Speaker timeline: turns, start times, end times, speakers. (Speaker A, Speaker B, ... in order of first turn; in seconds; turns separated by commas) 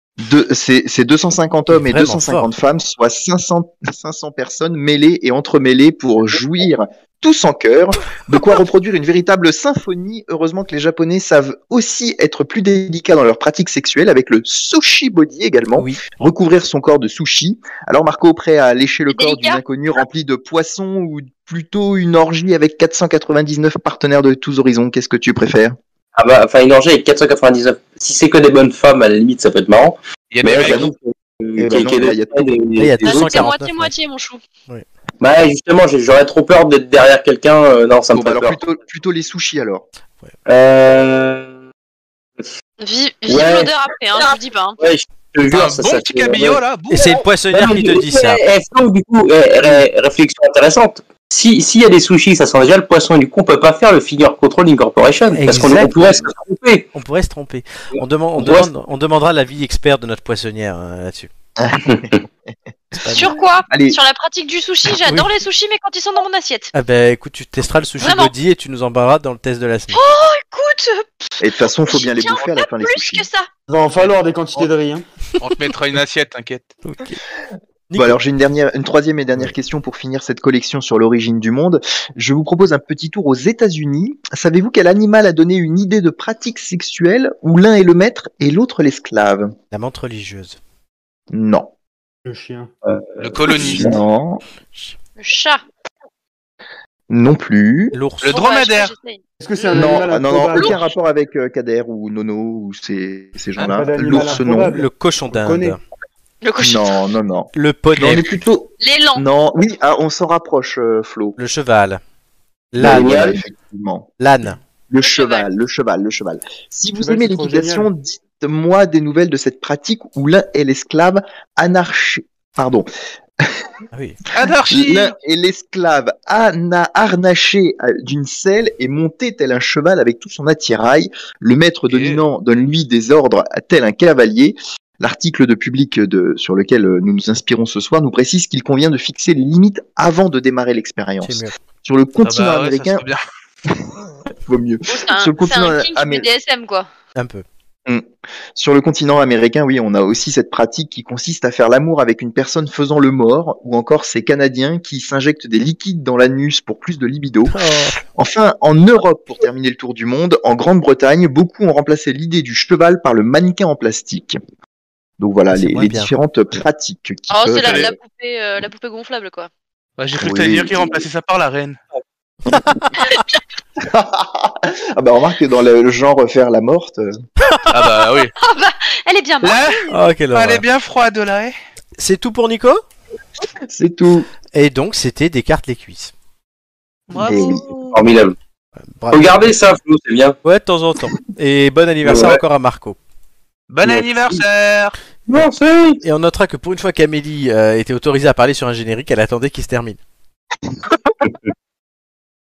Speaker A: 0.2-25.8, Speaker B: 1.7-2.5, Speaker B: 15.8-16.0, Speaker C: 19.1-19.6, Speaker D: 26.1-33.4, Speaker E: 30.3-30.8, Speaker A: 30.6-30.9, Speaker A: 31.6-32.5, Speaker B: 32.8-33.9, Speaker C: 33.0-34.4, Speaker D: 35.2-38.6, Speaker A: 38.1-39.9, Speaker D: 40.5-41.5, Speaker C: 42.8-44.8, Speaker D: 43.3-46.6, Speaker E: 45.5-47.2, Speaker B: 46.9-48.4, Speaker D: 47.5-56.9, Speaker B: 55.3-56.1, Speaker B: 56.9-61.3, Speaker D: 58.4-58.7, Speaker A: 61.6-62.2, Speaker A: 63.0-64.0, Speaker B: 63.0-63.3, Speaker C: 63.1-66.7, Speaker B: 66.7-70.0, Speaker C: 68.0-68.3, Speaker C: 69.9-73.5, Speaker A: 71.4-73.3, Speaker F: 73.7-75.0, Speaker E: 75.4-76.7, Speaker B: 76.8-77.2, Speaker B: 77.9-78.2, Speaker A: 78.0-89.5, Speaker B: 89.7-90.6, Speaker A: 91.3-91.7, Speaker F: 92.2-92.7, Speaker D: 92.8-94.0, Speaker E: 93.2-94.0, Speaker A: 93.5-94.4, Speaker C: 95.2-95.6, Speaker A: 97.1-98.0, Speaker B: 97.9-98.4, Speaker E: 98.2-98.9, Speaker C: 98.3-99.9, Speaker F: 99.4-100.8, Speaker A: 99.7-104.8, Speaker F: 103.6-105.8, Speaker B: 104.7-105.8, Speaker C: 106.4-107.0, Speaker A: 106.6-111.4, Speaker B: 107.5-108.3, Speaker C: 108.8-109.2, Speaker B: 111.4-112.0, Speaker B: 112.7-113.3, Speaker A: 112.8-114.1, Speaker D: 112.8-113.4, Speaker B: 114.2-114.6, Speaker A: 114.9-122.9, Speaker C: 115.0-115.5, Speaker F: 117.0-117.9, Speaker A: 123.4-123.7, Speaker B: 123.9-124.2, Speaker E: 124.3-125.1, Speaker A: 124.4-143.0, Speaker E: 131.9-132.2, Speaker B: 141.2-141.5, Speaker E: 142.2-143.2, Speaker A: 144.4-146.3, Speaker C: 144.9-146.9, Speaker B: 147.1-147.4, Speaker A: 147.9-157.5, Speaker B: 157.5-158.0, Speaker A: 158.1-164.4, Speaker A: 165.2-167.9, Speaker B: 165.5-166.1, Speaker C: 167.3-169.5, Speaker E: 170.0-171.8, Speaker A: 170.2-171.0, Speaker A: 172.5-172.9, Speaker A: 173.8-177.1, Speaker B: 177.4-177.7, Speaker E: 177.7-178.3, Speaker C: 178.3-179.9, Speaker E: 179.4-181.6, Speaker B: 179.9-180.6, Speaker B: 182.0-182.8, Speaker A: 183.7-184.3, Speaker B: 184.5-186.1, Speaker E: 187.1-187.9, Speaker A: 187.2-187.7, Speaker D: 187.8-188.3, Speaker B: 189.0-189.5, Speaker D: 189.1-190.3, Speaker B: 190.4-193.0, Speaker D: 192.0-192.4, Speaker E: 193.7-194.9, Speaker D: 195.3-196.0, Speaker B: 196.0-200.0